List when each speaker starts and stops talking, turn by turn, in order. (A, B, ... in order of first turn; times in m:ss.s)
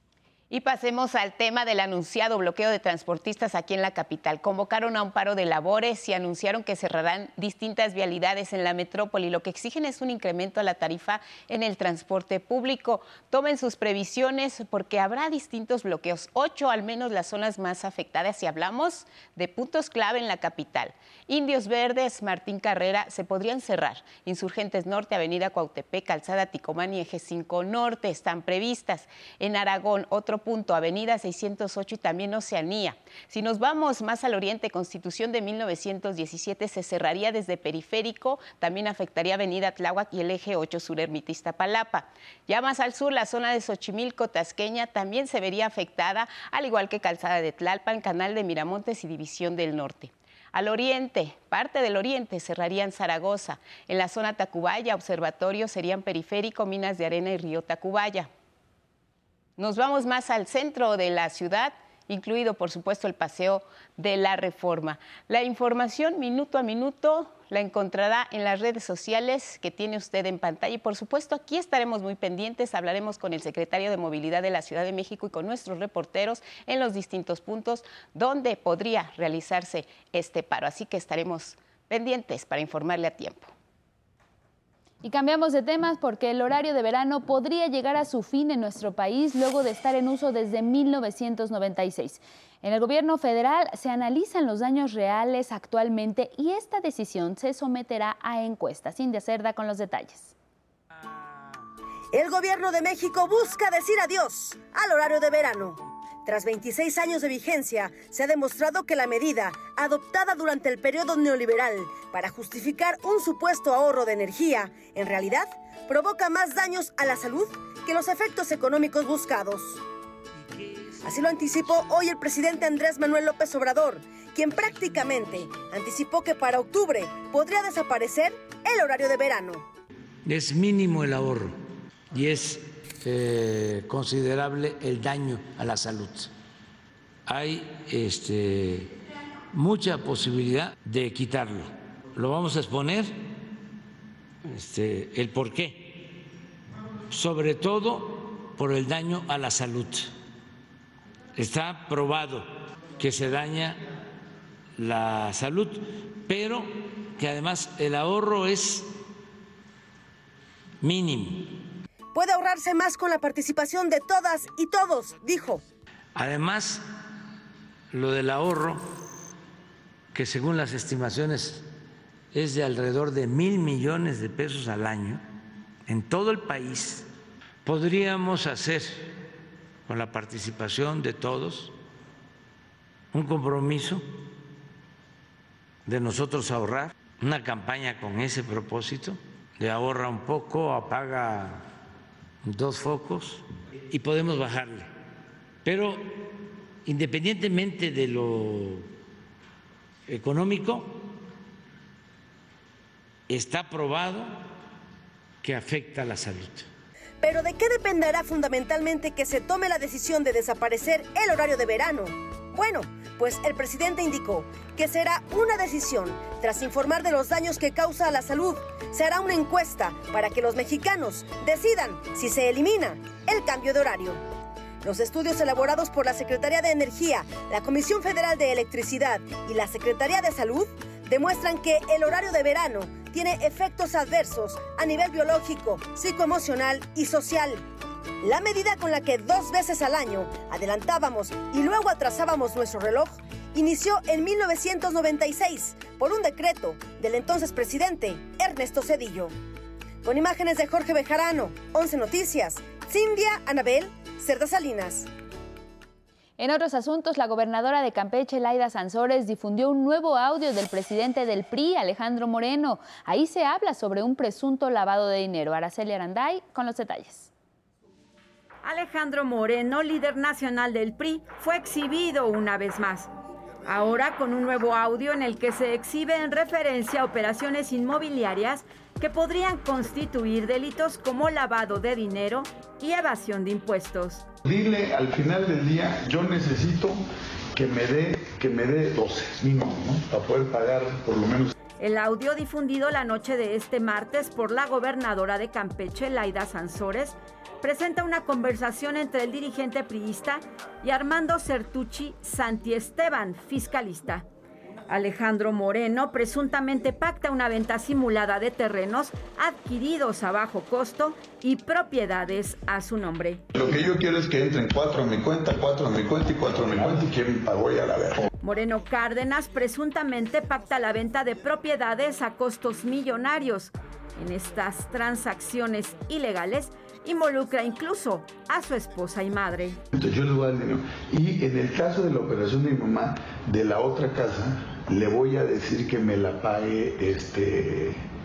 0:00.5-0:58.3 A
0:59.6-1:23.5 A
1:25.0-1:40.3 B
1:42.1-1:59.8 C
2:01.0-2:09.6 C
2:10.2-2:11.6 D
2:12.1-2:16.3 D
2:17.2-2:18.9 D
2:19.5-2:23.2 D
2:24.4-2:26.1 D
2:27.1-2:30.1 D
2:31.4-2:33.8 D
2:34.8-2:38.9 D
2:40.8-2:41.6 D
2:42.1-2:45.6 C
2:46.1-2:46.9 D
2:47.9-2:49.0 D
2:50.1-2:51.7 D
2:52.3-2:55.2 D
2:55.8-2:57.1 D
2:57.6-2:59.1 D
2:59.9-3:01.7 D
3:03.1-3:04.0 D
3:05.8-3:11.6 D
3:12.4-3:14.9 D
3:15.6-3:18.9 D
3:20.1-3:21.1 D
3:23.3-3:24.4 D
3:25.4-3:26.7 D
3:27.2-3:44.2 C
3:44.8-3:57.6 C
3:58.2-4:09.3 C
4:10.0-4:15.1 C
4:16.4-4:27.3 B
4:28.6-4:33.1 E
4:33.6-4:44.2 E
4:44.4-4:51.5 F
4:51.8-5:04.2 E
5:04.9-5:13.4 E
5:13.5-5:18.3 F
5:18.4-5:29.8 E
5:29.9-5:38.0 F